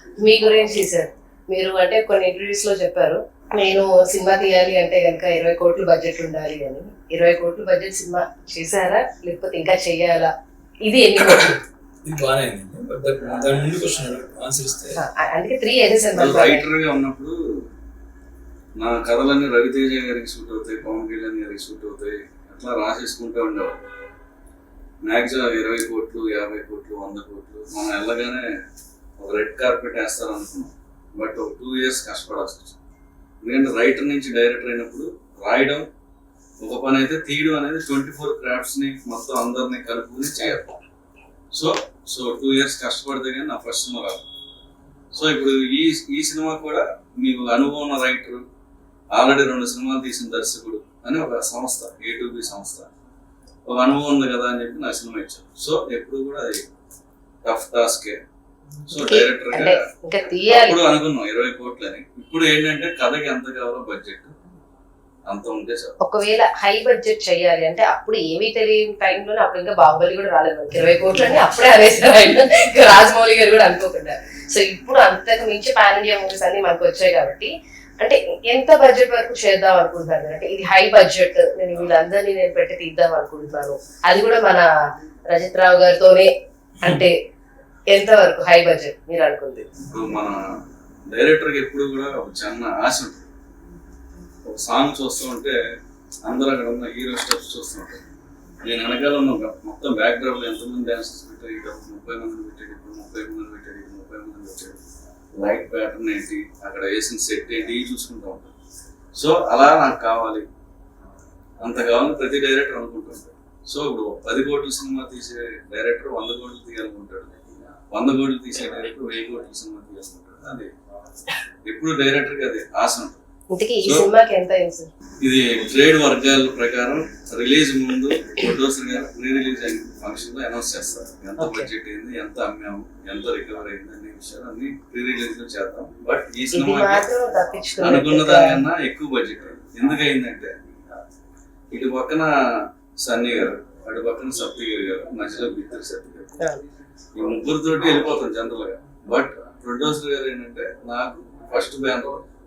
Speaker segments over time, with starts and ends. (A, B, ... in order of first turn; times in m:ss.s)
0:00.2-0:10.3 A
0:10.8-0:11.6 A
0:12.0-0:15.0 B
0:15.0-0:16.7 A
0:16.2-0:17.4 C
0:18.8-0:23.8 C
0:25.0-0:28.5 C
0:29.2-0:32.8 C
0:33.4-0:35.8 C
0:36.6-0:40.7 C
0:41.5-0:44.2 C
0:45.1-0:48.4 C
0:49.1-0:52.9 C
0:53.7-0:56.7 C
0:57.4-0:58.2 C
0:58.9-1:00.8 A
0:58.9-0:59.8 C
1:00.5-1:04.3 C
1:05.3-1:05.9 C
1:06.0-1:24.7 A
1:25.3-1:26.3 A
1:26.8-1:27.1 A
1:27.9-1:29.7 A
1:29.9-1:30.4 C
1:31.1-1:33.3 C
1:34.4-1:35.6 C
1:36.2-1:38.0 C
1:38.6-1:44.8 C
1:45.4-1:48.5 C
1:49.1-1:50.5 C
1:51.6-1:57.3 C
1:57.9-2:00.7 C
2:01.6-2:03.2 C
2:03.5-2:04.9 A
2:05.2-2:17.0 C
2:11.4-2:11.7 A
2:16.5-2:18.6 A
2:17.8-2:20.5 C
2:21.7-2:22.3 C
2:23.0-2:26.3 C
2:27.2-2:32.2 C